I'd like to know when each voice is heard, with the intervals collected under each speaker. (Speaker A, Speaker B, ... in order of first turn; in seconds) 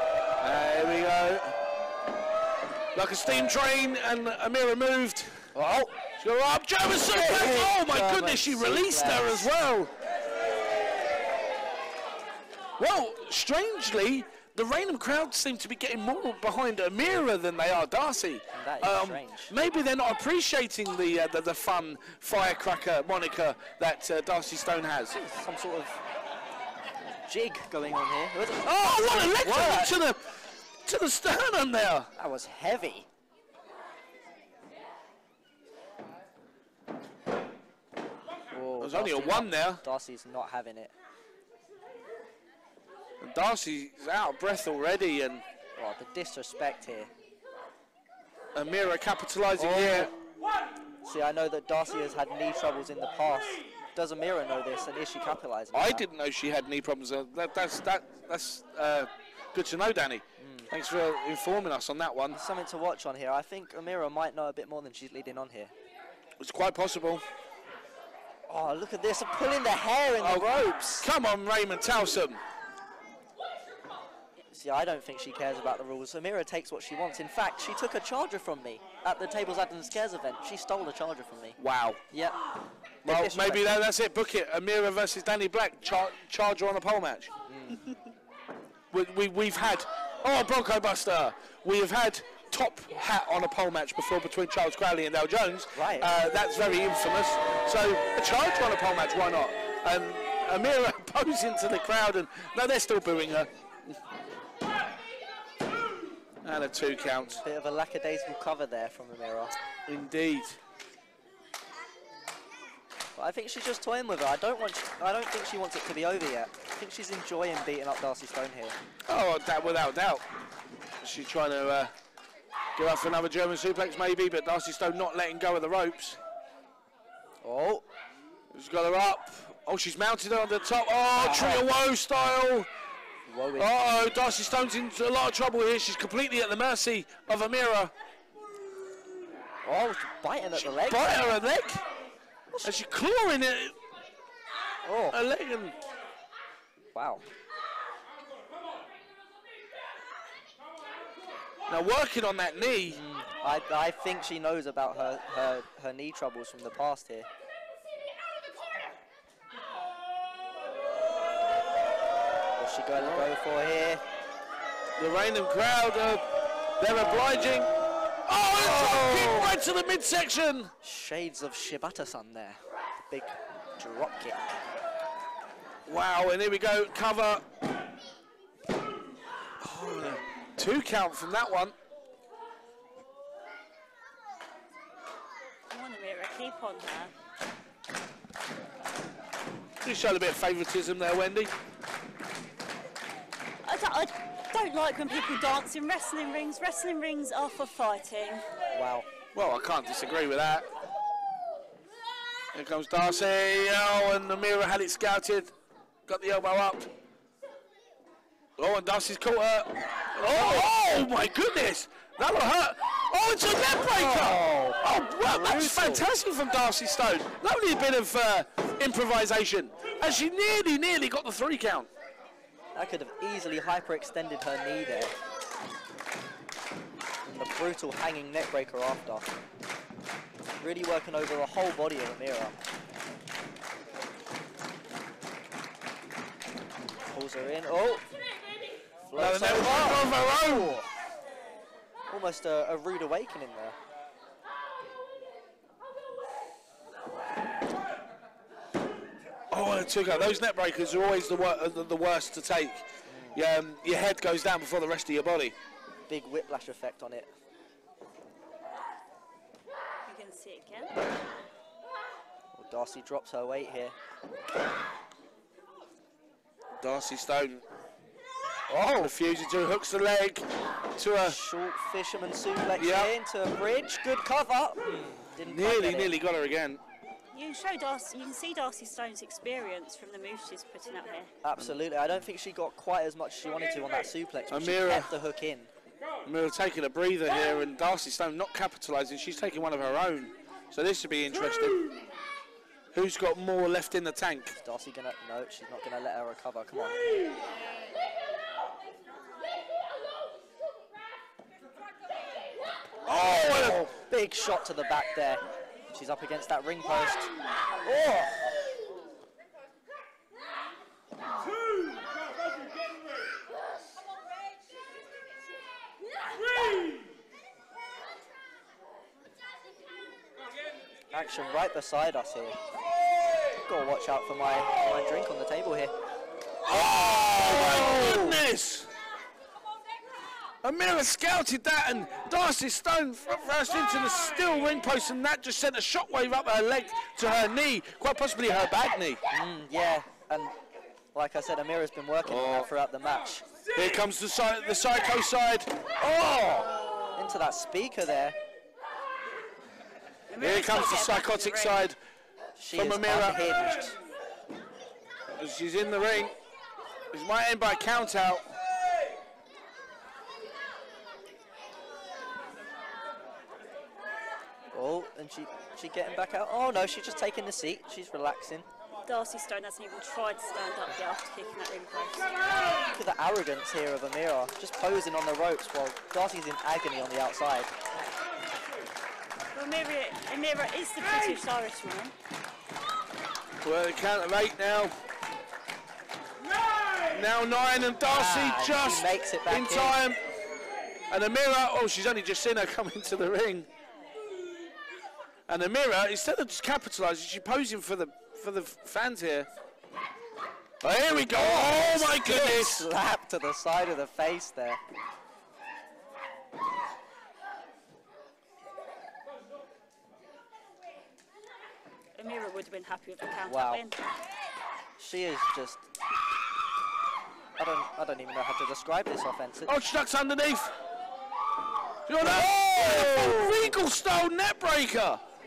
Speaker A: 0.4-1.6, 3.0-5.5, 6.2-9.9, 12.8-25.2, 28.6-30.3, 30.9-32.1, 38.8-39.8, 43.2-45.5, 48.5-50.1, 55.7-62.4, 66.4-67.2, 70.2-72.4, 81.6-82.0, 83.0-87.3, 88.9-104.0, 106.4-107.4, 109.9-110.6, 119.1-120.2, 121.0-121.9, 122.8-126.2, 128.5-132.7, 133.6-137.9, 140.6-141.8, 142.6-143.8, 145.1-145.8, 151.7-153.0, 163.0-163.3, 165.0-166.2, 166.8-167.7, 168.3-170.7, 175.9-177.4, 179.6-181.8, 189.8-191.5, 199.3-200.7, 202.5-205.5, 206.1-206.9, 208.6-221.9, 239.1-240.8, 249.5-255.6, 266.8-267.6, 268.7-270.5, 271.0-271.4, 272.8-273.1, 275.4-276.8, 284.5-285.1, 286.2-291.8, 292.9-294.6, 303.1-303.9, 326.6-328.9, 330.6-339.2, 342.2-342.7, 343.7-345.9, 350.4-352.0, 352.7-353.5, 355.3-356.3, 357.1-358.5, 383.6-385.0, 387.1-390.2, 391.1-393.7, 395.5-399.5, 400.8-402.9, 419.7-420.7, 422.1-425.2
Speaker B: 5.5-6.0, 7.0-9.5, 18.5-19.5, 25.1-26.0, 27.3-30.0, 32.2-33.1, 38.5-40.9, 45.8-47.1, 49.6-50.1, 51.0-56.1, 60.4-60.7, 62.3-65.7, 68.5-71.1, 74.5-81.6, 82.1-82.4, 83.0-83.8, 87.5-87.9, 95.7-96.1, 107.4-109.5, 113.2-118.8, 127.4-127.8, 131.2-131.7, 133.3-134.0, 139.6-141.2, 144.8-145.2, 146.9-147.3, 152.9-157.3, 162.6-164.0, 168.6-169.6, 170.8-174.4, 198.8-199.1, 210.2-210.7, 213.8-216.1, 222.8-225.1, 227.2-229.3, 230.6-232.6, 237.1-238.1, 239.1-240.9, 242.1-243.8, 253.1-253.4, 256.1-257.3, 262.6-263.9, 271.2-276.1, 281.4-285.7, 294.6-297.0, 304.0-307.3, 321.1-322.6, 323.6-325.9, 327.0-328.4, 339.3-340.6, 341.1-343.4, 346.0-348.4, 352.6-354.0, 364.7-368.7, 372.9-377.7, 388.1-390.0, 401.3-404.8, 413.5-413.8, 415.0-415.9, 417.6-419.7, 422.2-423.8
Speaker C: 185.7-187.1, 193.6-198.4, 260.1-260.9, 277.3-281.3, 350.3-351.9, 369.1-372.6, 379.5-382.1, 412.2-414.0